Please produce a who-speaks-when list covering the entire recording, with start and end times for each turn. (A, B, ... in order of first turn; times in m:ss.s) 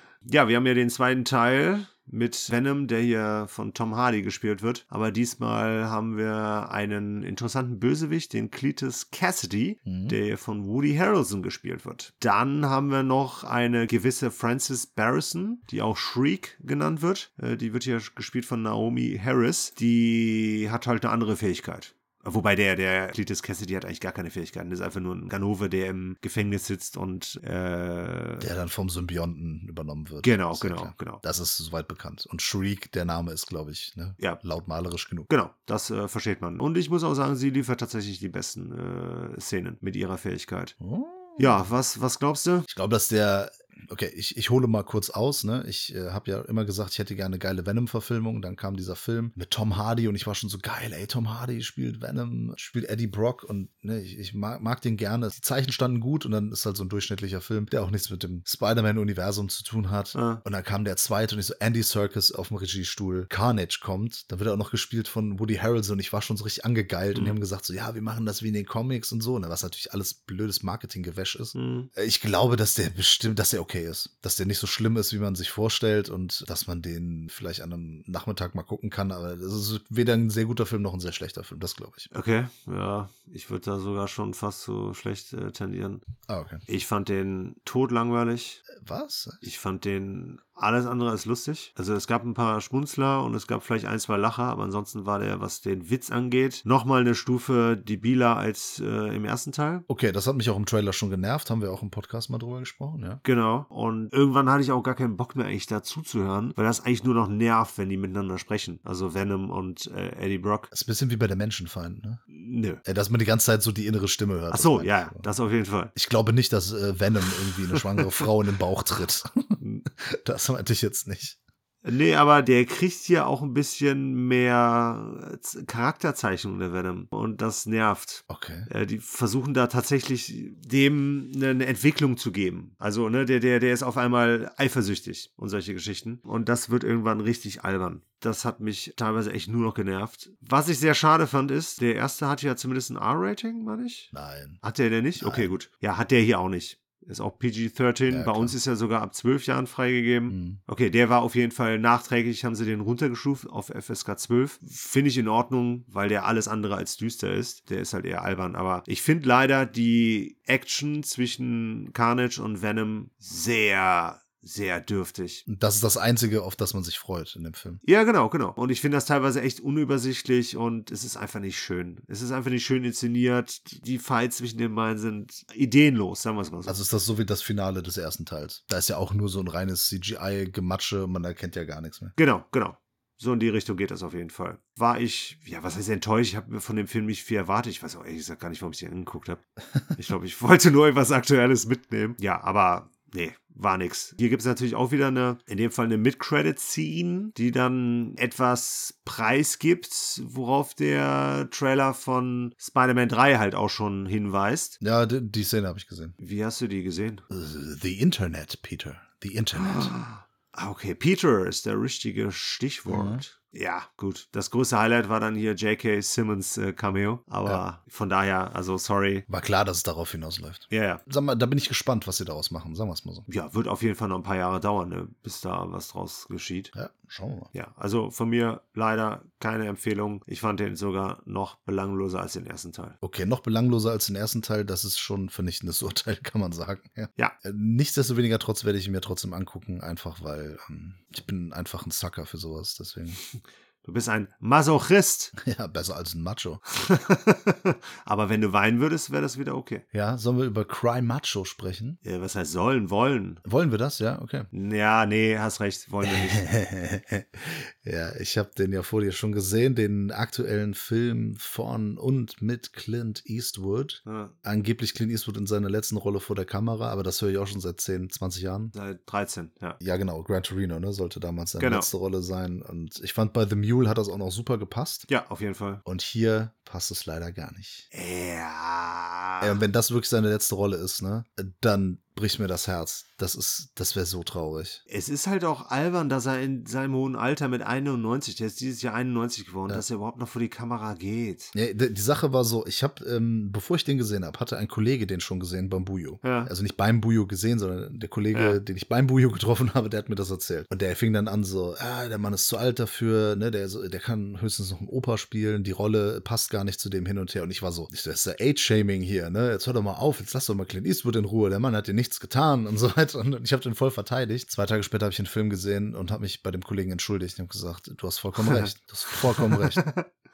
0:00.2-0:28.5 A
0:09.8-0:10.2 B
0:28.4-0:35.3 B
0:30.2-0:31.2 A
0:35.3-0:40.7 A
0:40.8-0:41.6 B
0:41.4-0:42.7 A
0:42.7-1:22.1 B
1:00.1-1:00.4 A
1:11.5-1:11.9 A
1:22.1-1:26.0 A
1:26.3-1:26.6 B
1:26.7-1:28.6 A
1:28.7-1:29.4 B
1:29.4-1:39.8 A
1:39.9-1:43.2 B
1:43.2-1:50.7 A
1:50.7-1:52.2 B
1:52.3-1:52.8 A
1:52.8-1:55.3 B
1:54.5-1:55.9 A
1:55.9-2:01.4 B
1:59.6-1:59.8 A
2:01.8-2:45.4 A
2:08.3-2:08.7 B
2:24.1-2:24.6 B
2:25.2-2:25.5 B
2:28.1-2:28.5 B
2:30.3-2:30.6 B
2:45.5-2:47.8 B
2:47.8-2:56.8 A
2:56.6-3:02.1 B
3:02.2-3:09.4 A
3:09.9-3:24.8 A
3:24.8-3:26.1 B
3:26.2-3:27.2 A
3:27.3-3:30.0 B
3:29.5-3:39.2 A
3:32.9-3:33.2 B
3:39.3-3:43.2 B
3:40.7-3:41.0 A
3:43.3-3:46.7 A
3:46.7-3:47.5 B
3:47.5-3:53.0 A
3:53.0-4:03.2 B
4:03.8-4:05.3 A
4:05.4-4:06.6 B
4:06.8-4:09.8 A
4:09.9-4:12.0 B
4:12.0-4:13.4 A
4:13.4-4:14.5 B
4:14.5-4:16.4 A
4:16.0-4:28.7 B
4:24.0-4:24.3 A
4:28.7-4:29.8 A
4:29.8-4:35.1 B
4:31.6-4:31.9 A
4:35.1-4:35.8 A
4:35.8-4:37.8 B
4:37.9-4:39.6 A
4:39.4-4:44.8 B
4:44.9-4:51.5 A
4:51.5-5:19.9 B
4:56.2-4:56.5 A
4:58.3-4:58.6 A
5:19.4-5:20.1 A